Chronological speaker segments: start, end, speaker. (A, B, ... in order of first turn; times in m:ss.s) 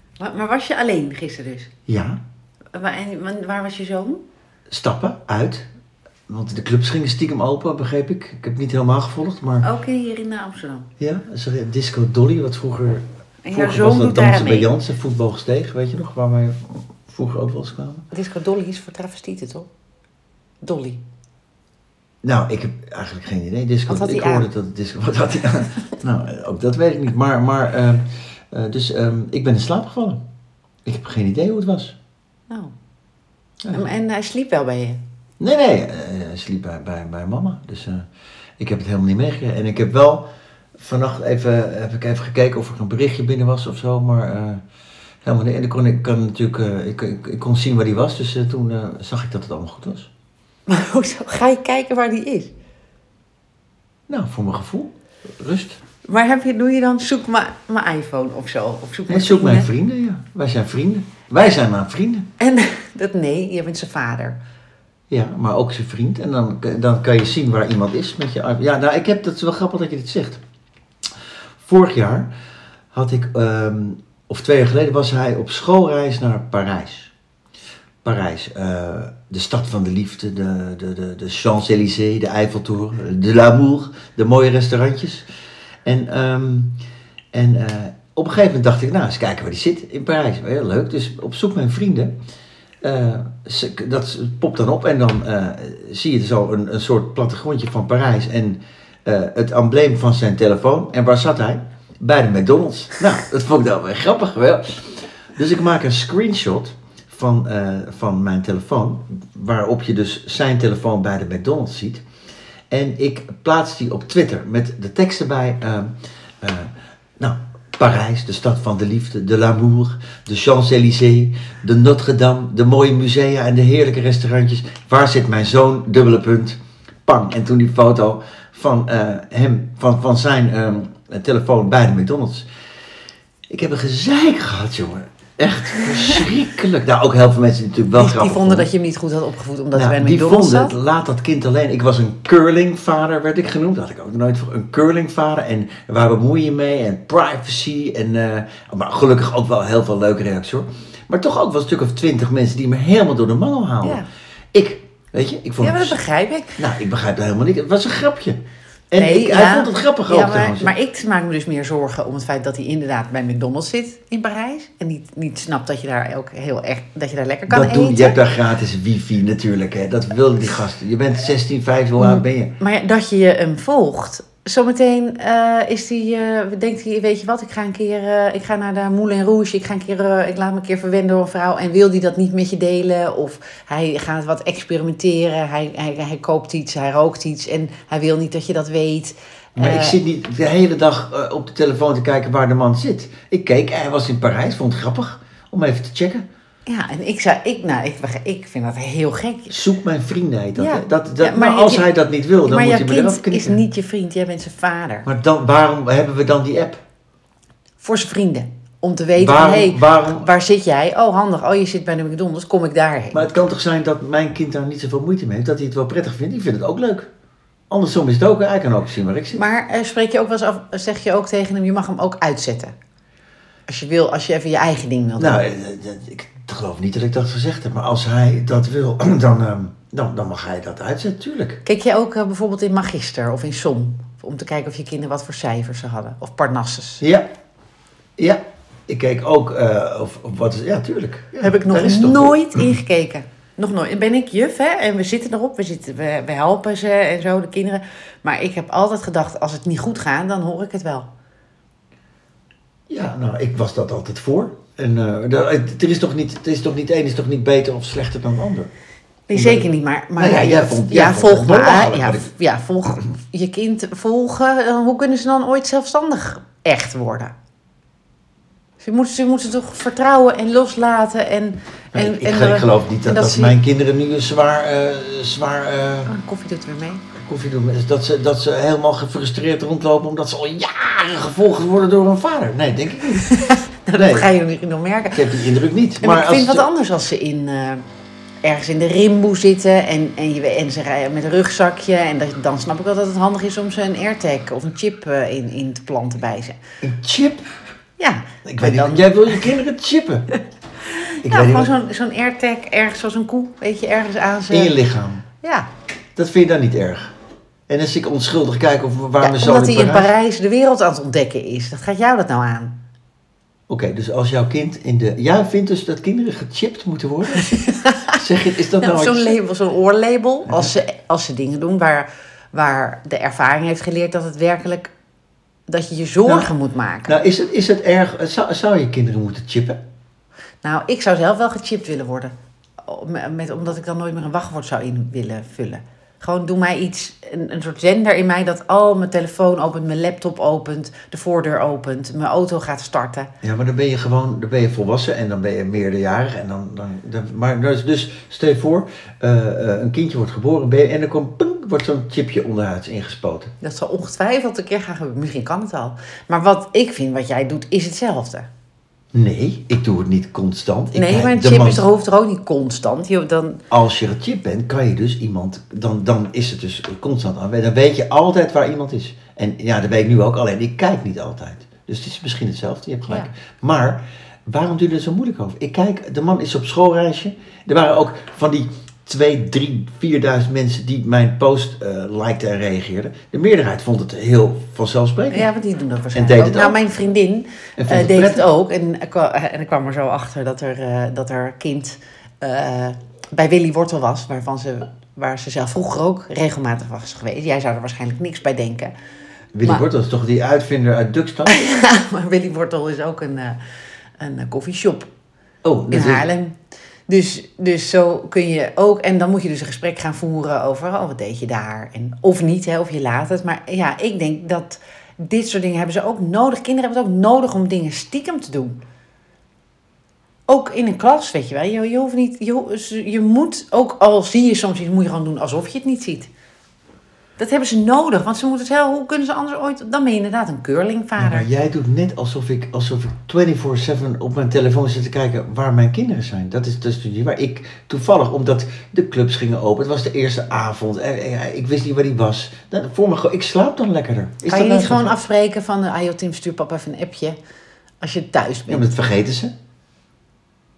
0:00.2-0:01.7 A
0:01.9-0:02.2 B
0:02.7-0:04.2 A
0:04.7-0:05.6 B
0:06.3-0:09.7 B
0:09.6-0:10.9 A
0:11.0-0:18.1 B
0:13.4-0:14.7 A
0:18.1-0:19.7 A
0:20.6-0:21.0 A
0:22.2-0:30.2 B
0:23.9-0:24.5 A
0:30.8-0:31.9 B
0:32.5-0:32.7 A
0:33.7-0:35.0 A
0:35.4-0:38.0 B
0:38.6-0:40.2 B
0:40.8-0:44.6 B
0:45.2-0:50.1 B
0:50.7-0:52.5 A
0:54.1-0:55.8 B
0:56.0-0:59.7 A
0:59.1-1:02.3 B
1:02.4-1:04.4 A
1:05.1-1:10.4 B
1:11.6-1:12.3 B
1:12.9-1:17.1 B
1:18.0-1:25.2 B
1:25.8-1:26.8 B
1:27.3-1:32.1 B
1:32.8-1:52.0 B
1:52.7-2:12.5 B
2:13.5-2:18.7 B
2:18.0-2:20.8 A
2:19.7-2:34.0 B
2:34.5-2:36.0 B
2:35.6-2:36.6 A
2:36.6-2:40.7 B
2:39.0-2:48.2 A
2:47.5-2:52.5 B
2:52.0-3:10.0 A
3:09.6-3:16.2 B
3:16.6-3:19.6 A
3:19.5-3:23.6 B
3:20.6-3:25.0 A
3:25.0-3:26.8 B
3:27.8-3:33.3 A
3:29.2-3:30.3 B
3:33.1-3:37.1 B
3:37.7-3:39.4 B
3:39.3-3:42.7 A
3:43.7-3:45.4 A
3:45.2-3:51.6 B
3:51.6-3:57.0 A
3:57.0-3:57.3 B
3:58.2-4:02.5 B
4:01.4-4:11.1 A
4:12.9-4:18.7 B
4:19.3-4:27.3 A
4:19.3-4:22.3 B
4:28.8-4:33.6 A
4:31.9-4:36.1 B
4:36.1-4:37.0 A
4:37.2-4:43.3 B
4:43.3-4:45.4 A
4:43.9-4:44.3 B
4:45.1-4:46.7 B
4:46.0-4:47.8 A
4:48.4-4:56.6 A
4:56.8-4:57.4 B
4:58.0-4:59.6 A
4:58.4-5:00.3 B
5:00.9-5:04.8 A
5:01.2-5:01.7 B
5:04.5-5:05.2 B
5:05.4-5:05.7 A
5:06.2-5:07.1 B
5:07.7-5:10.1 B
5:09.2-5:12.8 A
5:13.7-5:17.5 B
5:17.4-5:18.2 A
5:18.2-5:19.4 B
5:18.8-5:24.9 A
5:25.7-5:27.2 A
5:27.1-5:29.8 B
5:30.6-5:43.3 A
5:43.4-5:53.5 B
5:53.6-5:58.5 A
5:59.1-6:01.9 B
6:00.9-6:03.6 A
6:03.7-6:25.5 B
6:25.3-6:38.9 A
6:26.1-6:26.8 B
6:27.8-6:28.5 B
6:39.5-6:41.5 B
6:41.4-6:43.6 A
6:44.2-6:45.1 A
6:45.6-6:46.3 B
6:45.9-6:46.5 A
6:47.1-6:58.8 A
7:00.5-7:06.3 A
7:07.4-7:11.4 A
7:11.2-7:25.1 B
7:24.4-7:27.4 A
7:28.0-7:29.0 A
7:28.7-7:29.5 B